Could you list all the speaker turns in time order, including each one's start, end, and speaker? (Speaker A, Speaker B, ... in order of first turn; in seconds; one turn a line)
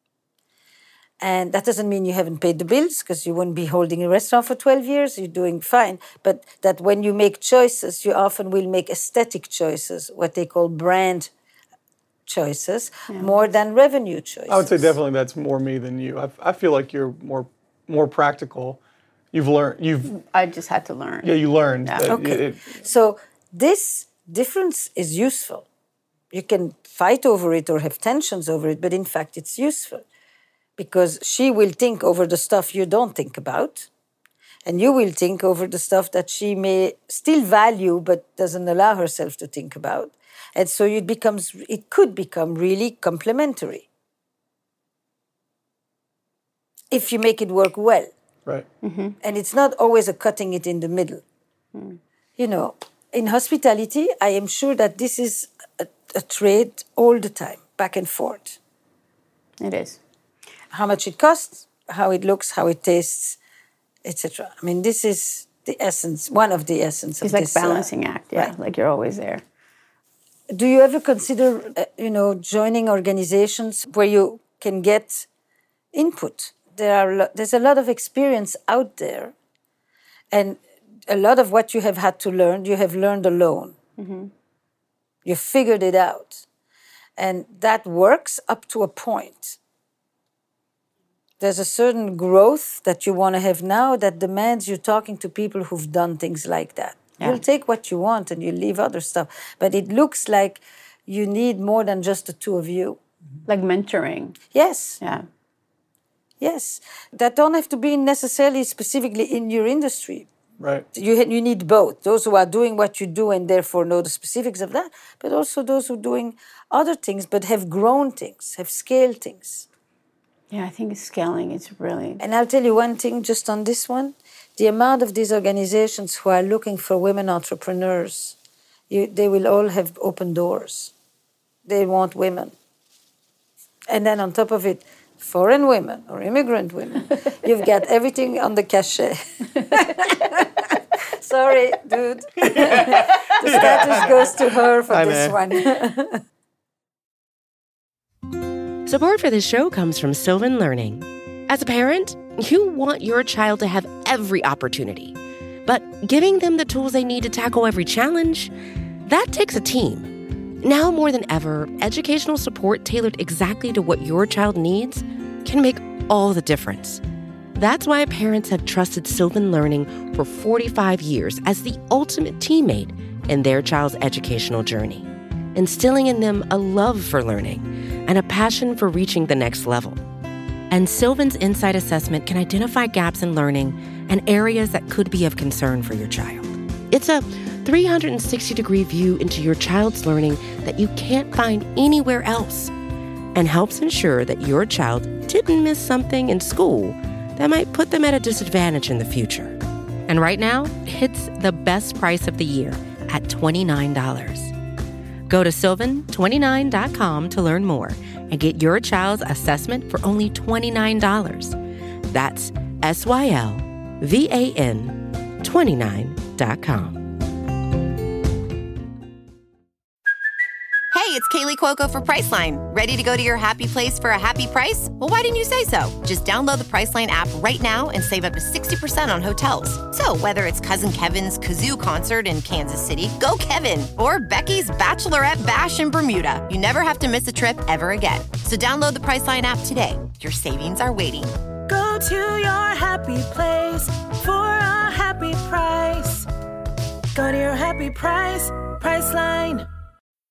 Speaker A: 1.2-11.3
Speaker A: 12.3-15.0
Speaker B: 13.1-13.3
Speaker C: 14.5-18.8
Speaker C: 19.3-20.1
Speaker B: 20.1-22.1
Speaker C: 21.2-22.8
Speaker A: 22.0-25.7
Speaker A: 26.3-30.0
Speaker A: 30.8-33.9
Speaker A: 34.6-43.9
Speaker A: 46.9-48.1
Speaker B: 48.8-49.2
Speaker A: 49.2-51.2
Speaker B: 51.7-52.0
Speaker A: 52.4-58.6
Speaker B: 59.6-60.0
Speaker A: 60.7-63.4
Speaker A: 64.0-68.5
Speaker B: 67.2-69.4
Speaker A: 70.5-75.3
Speaker A: 75.9-79.3
Speaker A: 80.3-83.8
Speaker B: 84.0-84.3
Speaker A: 85.2-86.5
Speaker A: 87.2-89.6
Speaker A: 91.4-103.0
Speaker B: 103.5-104.4
Speaker A: 104.5-105.0
Speaker A: 106.4-110.3
Speaker C: 110.6-110.9
Speaker A: 110.9-119.7
Speaker B: 120.5-122.2
Speaker A: 122.2-128.4
Speaker A: 128.9-130.9
Speaker A: 131.7-132.6
Speaker A: 133.9-140.5
Speaker A: 141.1-146.2
Speaker C: 142.4-145.4
Speaker D: 148.8-158.5
Speaker D: 159.1-167.0
Speaker D: 167.5-180.0
Speaker D: 180.7-192.7
Speaker D: 193.3-204.5
Speaker D: 205.3-211.6
Speaker D: 212.1-217.1
Speaker E: 220.9-241.4
Speaker F: 241.7-246.3
Speaker F: 247.1-249.7